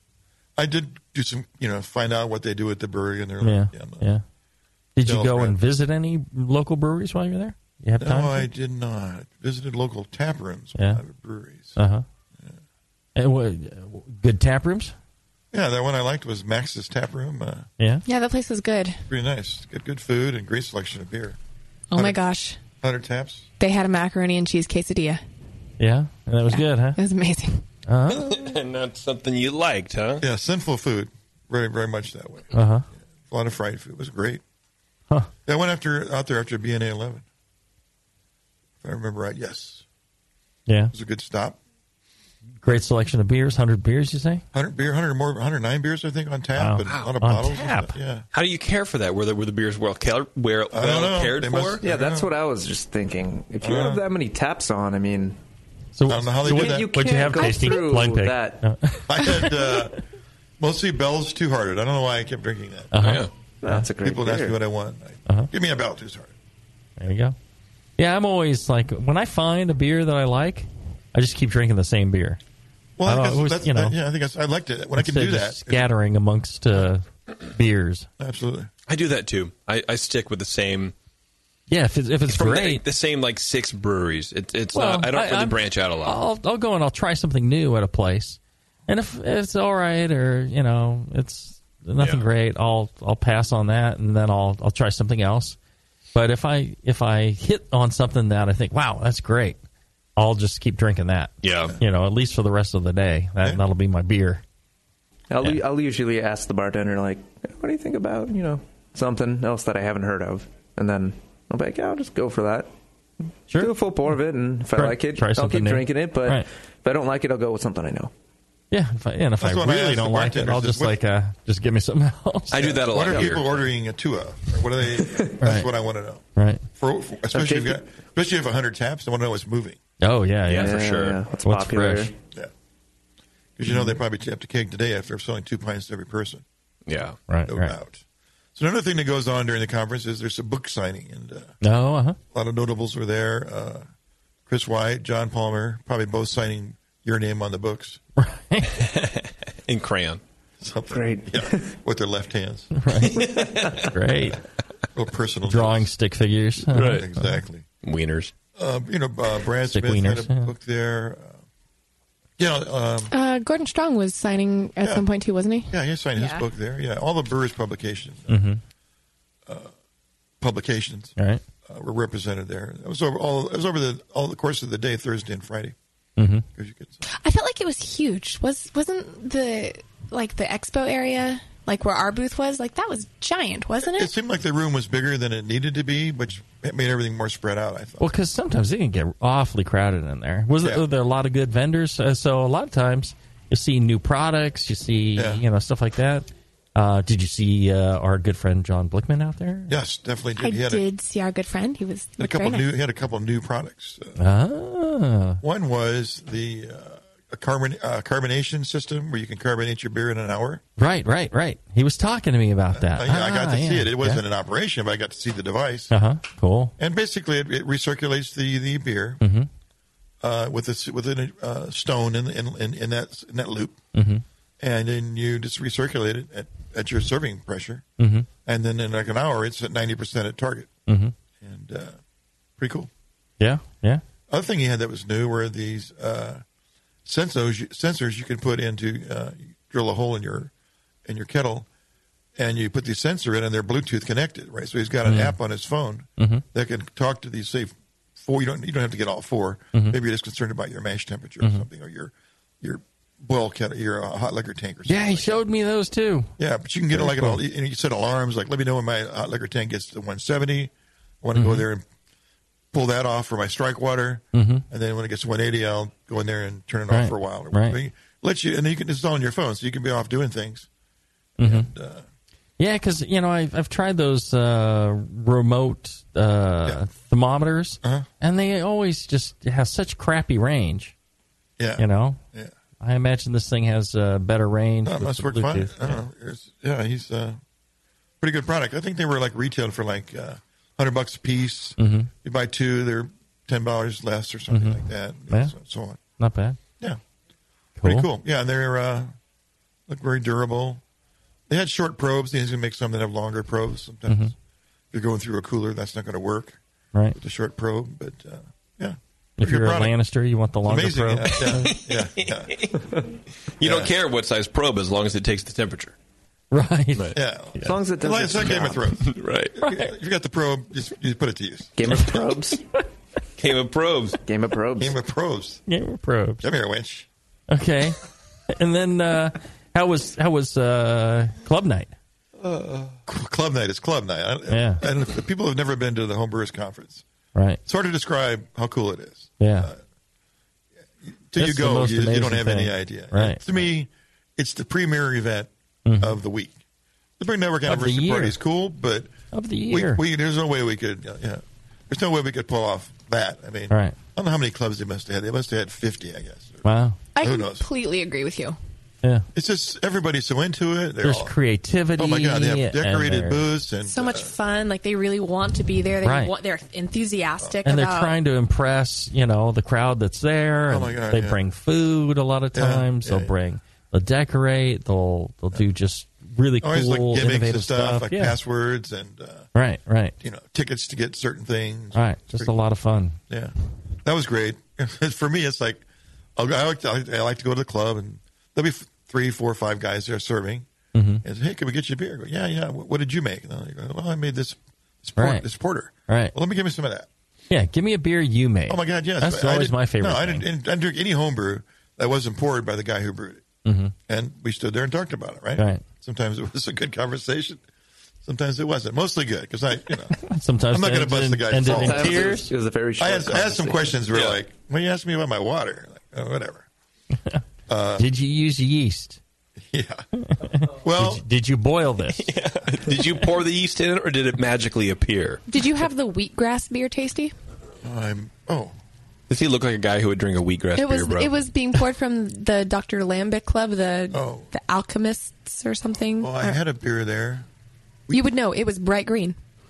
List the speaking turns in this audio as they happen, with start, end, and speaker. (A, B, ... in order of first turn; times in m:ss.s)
0:00.6-0:04.1 A
0:03.4-0:04.2 B
0:05.0-0:08.5 B
0:05.0-0:05.6 A
0:08.0-0:11.8 A
0:10.8-0:11.0 B
0:11.8-0:12.0 B
0:13.2-0:14.9 B
0:15.5-0:17.7 A
0:17.8-0:18.0 B
0:18.1-0:19.0 C
0:19.1-0:21.4 A
0:21.9-0:22.6 C
0:21.9-0:22.2 A
0:22.8-0:23.5 A
0:23.6-0:25.2 C
0:25.8-0:27.0 B
0:26.5-0:27.6 C
0:27.9-0:28.5 B
0:28.1-0:30.2 D
0:30.2-0:32.5 A
0:32.5-0:32.9 B
0:33.3-0:34.4 A
0:35.5-0:37.2 A
0:38.8-0:39.8 A
0:40.7-0:40.9 B
0:40.9-0:41.6 A
0:42.6-0:44.4 B
0:44.5-0:48.3 A
0:46.6-0:48.0 B
0:46.8-0:47.1 D
0:48.3-0:51.8 D
0:50.7-0:52.3 A
0:51.8-0:55.4 E
0:53.6-0:54.0 A
0:56.0-0:59.9 B
0:56.1-0:57.2 A
0:56.4-0:58.7 E
0:59.1-1:00.0 A
1:00.6-1:02.9 A
1:02.9-1:03.9 B
1:03.0-1:03.3 D
1:03.6-1:04.6 E
1:04.0-1:06.3 A
1:07.0-1:07.4 B
1:08.0-1:12.4 B
1:13.0-1:15.9 A
1:13.1-1:14.0 B
1:15.0-1:18.1 B
1:18.2-1:18.7 A
1:18.9-1:20.9 D
1:21.7-1:22.8 B
1:22.3-1:26.2 D
1:24.7-1:35.6 B
1:32.0-1:32.3 D
1:36.2-1:39.6 B
1:40.2-1:44.4 B
1:41.4-1:41.8 D
1:45.3-1:52.7 E
1:53.5-1:53.7 B
1:53.6-1:58.1 E
1:54.7-1:56.5 B
1:58.7-2:02.8 B
1:59.4-2:01.0 A
2:02.5-2:03.7 D
2:02.6-2:06.2 A
2:05.1-2:05.3 E
2:05.4-2:05.7 B
2:06.4-2:06.6 B
2:06.8-2:09.8 A
2:07.3-2:07.8 E
2:10.0-2:10.8 B
2:10.5-2:11.2 D
2:10.6-2:12.2 E
2:11.4-2:12.1 B
2:13.6-2:16.4 A
2:16.9-2:17.2 D
2:17.3-2:17.8 B
2:17.5-2:18.0 A
2:18.6-2:21.6 A
2:21.6-2:22.2 B
2:22.3-2:23.9 A
2:24.5-2:28.0 A
2:28.2-2:28.8 B
2:28.7-2:30.2 D
2:30.6-2:32.7 A
2:30.9-2:31.7 E
2:32.8-2:34.4 B
2:33.1-2:33.8 D
2:33.2-2:33.9 E
2:35.0-2:35.9 A
2:35.5-2:37.4 B
2:36.7-2:37.0 D
2:36.7-2:37.7 A
2:37.8-2:38.3 D
2:38.6-2:41.4 A
2:39.7-2:40.5 B
2:42.4-2:43.1 A
2:43.1-2:46.4 C
2:44.8-2:45.1 A
2:45.7-2:48.4 A
2:48.3-2:48.6 B
2:49.5-2:49.7 A
2:50.4-2:55.8 A
2:51.2-2:51.4 B
2:56.2-2:56.5 B
2:56.6-2:57.0 A
2:57.1-3:04.1 C
3:03.8-3:08.1 A
3:08.0-3:19.7 B
3:15.2-3:15.4 A
3:19.7-3:20.9 A
3:20.4-3:22.7 C
3:22.2-3:24.2 A
3:24.2-3:25.4 B
3:25.4-3:30.6 A
3:30.8-3:34.2 B
3:32.7-3:35.9 A
3:35.9-3:36.7 B
3:36.8-3:39.2 A
3:39.2-3:39.5 B
3:40.2-3:43.8 A
3:43.9-3:44.2 B
3:44.6-3:47.8 A
3:48.0-3:48.3 B
3:48.5-3:50.7 A
3:50.9-3:51.1 B
3:51.4-3:52.0 A
3:52.6-3:52.9 A
3:53.4-3:54.0 B
3:54.3-3:56.4 A
3:57.1-4:00.5 A
4:01.0-4:01.7 A
4:02.4-4:15.4 A
4:05.0-4:05.4 B
4:06.2-4:06.4 B
4:11.4-4:11.7 B
4:14.9-4:16.3 B
4:16.4-4:21.8 A
4:16.9-4:17.4 B
4:21.4-4:21.7 B
4:22.7-4:30.7 A
4:24.3-4:24.6 B
4:26.9-4:27.8 B
4:31.4-4:31.7 B
4:31.4-4:32.0 A
4:32.6-4:40.9 B
4:37.8-4:38.1 A
4:41.6-4:42.5 A
4:41.8-4:42.2 B
4:42.8-4:46.0 B
4:44.8-4:47.4 A
4:48.2-4:56.0 A
4:51.8-4:52.1 B
4:54.5-4:55.5 B
4:56.2-4:56.6 B
4:57.8-4:58.1 B
4:57.8-4:59.2 A
4:59.9-5:00.8 A
5:01.5-5:04.3 A
5:04.9-5:06.6 A
5:07.2-5:10.0 A
5:09.4-5:11.7 B
5:10.6-5:12.8 A
5:11.4-5:12.8 D
5:13.6-5:16.0 D
5:13.6-5:13.9 A
5:16.5-5:17.7 B
5:17.1-5:21.8 A
5:17.6-5:18.8 E
5:19.0-5:19.5 D
5:19.6-5:19.9 B
5:21.8-5:22.6 E
5:23.4-5:24.2 D
5:24.2-5:25.0 E
5:24.8-5:25.6 A
5:25.7-5:26.5 B
5:26.4-5:27.1 A
5:27.5-5:31.9 B
5:32.4-5:33.0 D
5:33.1-5:37.0 A
5:34.5-5:34.8 B
5:37.4-5:37.6 B
5:37.7-5:39.8 A
5:39.4-5:39.7 B
5:41.0-5:46.6 A
5:41.4-5:43.4 B
5:45.8-5:46.2 B
5:47.2-5:49.2 A
5:47.7-5:48.4 B
5:49.3-5:50.0 B
5:49.7-5:57.7 A
5:53.7-5:54.0 B
5:56.6-5:57.0 B
5:57.2-5:58.6 C
5:59.3-6:01.4 A
6:01.0-6:03.5 B
6:02.0-6:04.3 A
6:03.9-6:08.2 C
6:06.0-6:06.3 B
6:07.6-6:18.4 B
6:10.7-6:11.4 A
6:12.5-6:13.3 A
6:16.6-6:19.5 A
6:19.6-6:20.2 B
6:20.2-6:22.5 A
6:21.9-6:23.2 B
6:23.3-6:25.8 A
6:26.4-6:30.7 A
6:30.9-6:31.2 B
6:31.2-6:37.1 A
6:35.2-6:35.5 B
6:36.1-6:36.4 B
6:37.5-6:40.4 B
6:38.7-6:43.4 A
6:43.6-6:43.9 B
6:44.1-6:47.6 A
6:45.6-6:45.8 B
6:48.2-6:56.7 A
6:50.3-6:52.5 B
6:51.6-6:53.9 E
6:57.7-6:58.1 A
6:58.0-6:59.2 B
6:59.7-7:00.0 A
7:00.2-7:02.3 B
7:00.6-7:01.2 A
7:02.2-7:05.4 D
7:05.5-7:07.3 C
7:07.8-7:08.8 A
7:09.3-7:11.3 D
7:10.8-7:16.6 C
7:14.1-7:14.5 A
7:16.2-7:17.5 A
7:18.1-7:19.4 C